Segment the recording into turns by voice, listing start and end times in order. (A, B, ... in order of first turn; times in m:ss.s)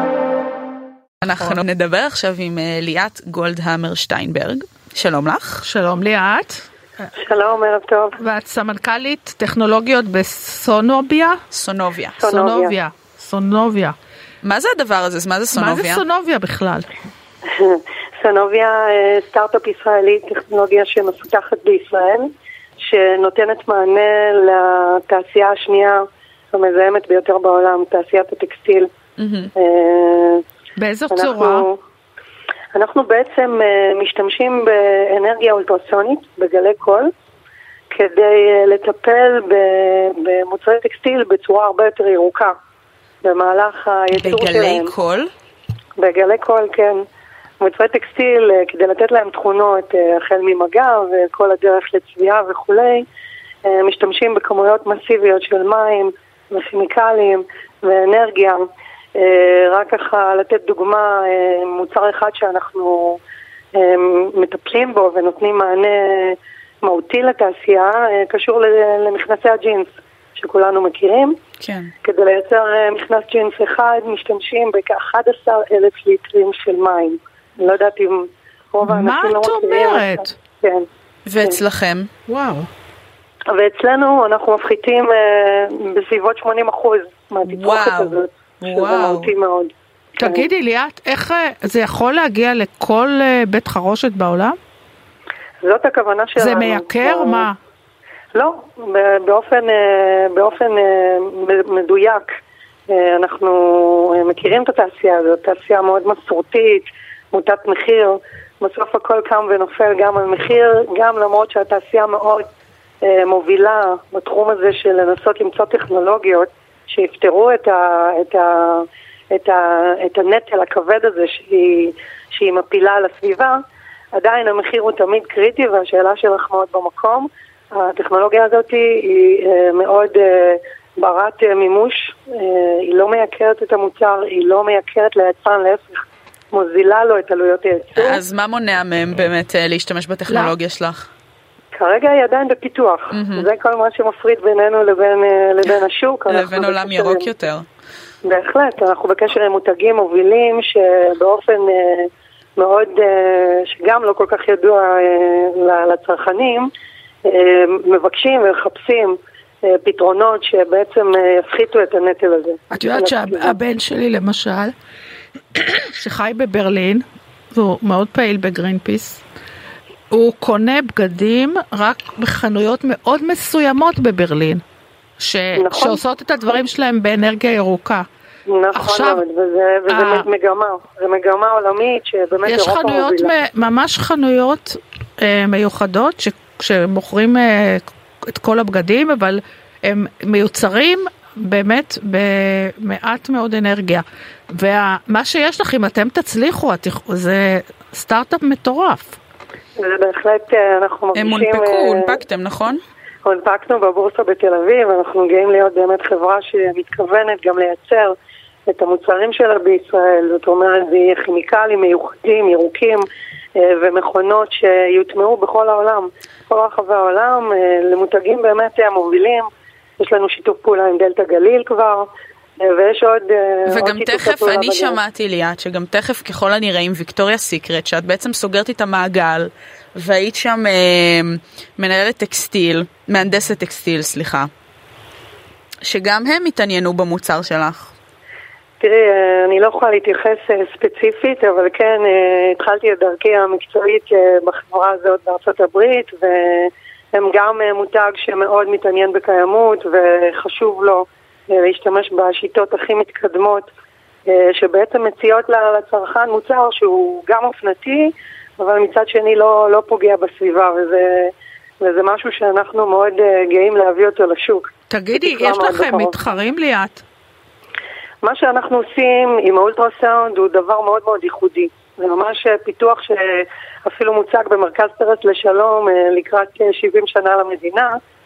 0:01.2-0:05.6 A
0:05.6-0:06.6 B
0:07.2-0:08.2 C
0:08.2-0:11.4 B
0:11.5-0:12.2 A
0:12.2-0:12.8 C
0:12.2-0:14.0 B
0:14.4-0:16.0 A
0:15.5-0:16.9 B
0:17.5-0:28.9 C
0:29.2-0:29.5 A
0:29.6-0:30.4 C
0:30.8-0:31.7 B
0:31.1-0:31.8 C
0:32.7-0:37.1 C
0:37.9-0:42.5 C
0:43.2-0:44.9 C
0:44.2-0:45.3 A
0:46.0-0:47.0 C
0:47.6-0:53.1 C
0:53.7-0:58.6 C
0:59.2-1:03.2 C
1:03.8-1:11.4 C
1:11.6-1:11.9 A
1:12.0-1:20.9 C
1:18.8-1:20.3 B
1:21.3-1:22.1 A
1:22.3-1:22.7 B
1:23.5-1:30.5 C
1:27.5-1:29.3 A
1:30.2-1:34.6 B
1:35.6-1:37.5 C
1:36.4-1:37.6 B
1:38.3-1:42.3 C
1:42.9-1:52.5 C
1:53.0-2:03.6 C
2:04.1-2:18.2 C
2:18.0-2:21.1 A
2:20.3-2:20.5 B
2:21.7-2:27.3 C
2:23.1-2:23.5 A
2:26.3-2:27.7 A
2:28.2-2:36.7 C
2:37.3-2:43.6 C
2:42.7-2:44.7 B
2:45.5-2:49.2 B
2:50.1-2:54.6 B
2:55.2-2:58.1 B
2:55.6-2:56.0 C
2:58.5-3:03.3 C
2:58.7-2:59.2 B
2:59.9-3:00.3 B
3:02.4-3:19.2 B
3:19.8-3:22.2 C
3:21.2-3:22.8 A
3:23.2-3:28.2 C
3:28.7-3:42.1 C
3:42.6-3:45.0 C
3:43.7-3:54.5 A
3:55.8-3:57.9 A
3:58.8-4:13.7 C
4:14.3-4:26.4 C
4:24.9-4:27.0 B
4:28.2-4:38.0 C